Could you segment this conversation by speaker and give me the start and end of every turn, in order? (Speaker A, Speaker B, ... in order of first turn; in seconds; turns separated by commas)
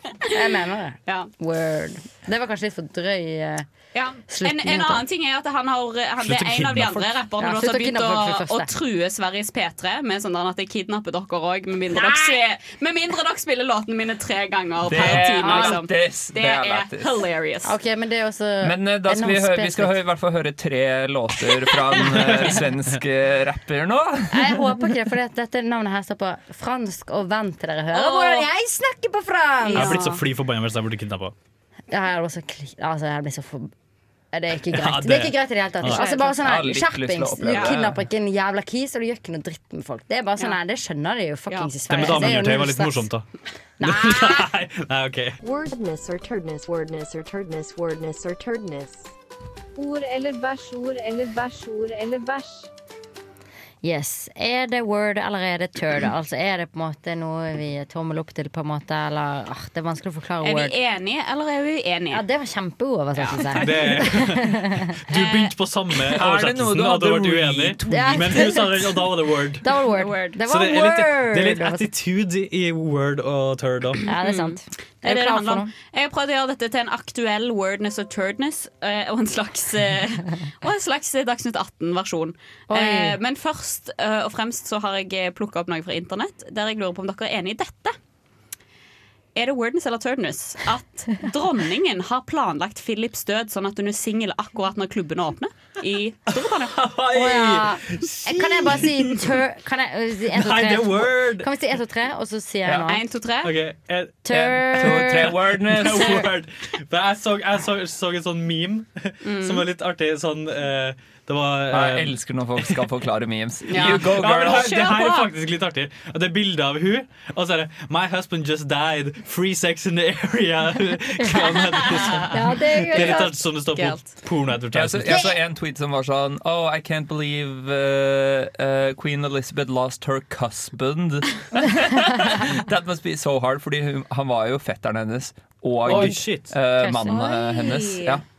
Speaker A: 0.3-3.7, Speaker B: 3.9-17.7, Speaker A: 4.3-5.0, Speaker C: 6.6-6.8, Speaker A: 7.4-8.7, Speaker C: 14.8-17.2, Speaker A: 15.0-15.8, Speaker A: 17.6-19.9, Speaker C: 18.6-24.6, Speaker D: 22.1-22.4, Speaker A: 24.3-30.1, Speaker B: 27.9-28.5, Speaker D: 29.7-31.3, Speaker B: 29.7-30.2, Speaker A: 31.9-33.7, Speaker A: 34.3-43.1, Speaker D: 34.7-36.0, Speaker B: 35.9-36.3, Speaker C: 36.2-38.0, Speaker B: 37.4-37.7, Speaker D: 41.9-43.2, Speaker A: 43.8-44.5, Speaker D: 43.8-45.4, Speaker E: 45.4-49.1, Speaker F: 49.8-52.7, Speaker A: 53.8-60.7, Speaker B: 60.4-62.2, Speaker A: 62.1-64.8, Speaker B: 63.1-64.1, Speaker D: 63.6-69.7, Speaker B: 65.1-65.5, Speaker C: 66.1-68.5, Speaker A: 67.9-68.9, Speaker A: 69.6-71.9, Speaker B: 70.0-70.4, Speaker D: 70.5-74.0, Speaker A: 74.0-75.7, Speaker B: 74.1-87.9, Speaker A: 82.7-83.2, Speaker B: 89.3-96.8, Speaker D: 96.6-99.3, Speaker A: 97.1-103.0, Speaker D: 100.3-101.5, Speaker B: 102.9-103.5, Speaker D: 103.4-112.9, Speaker A: 104.2-105.3, Speaker C: 104.3-106.3, Speaker B: 109.2-109.6, Speaker C: 111.7-114.8, Speaker B: 113.7-115.3, Speaker D: 113.8-125.2, Speaker A: 121.2-123.3, Speaker B: 123.7-124.0, Speaker C: 124.7-138.2, Speaker A: 125.1-125.4, Speaker D: 135.8-136.5, Speaker A: 135.9-136.2, Speaker A: 136.8-137.3, Speaker B: 137.1-138.2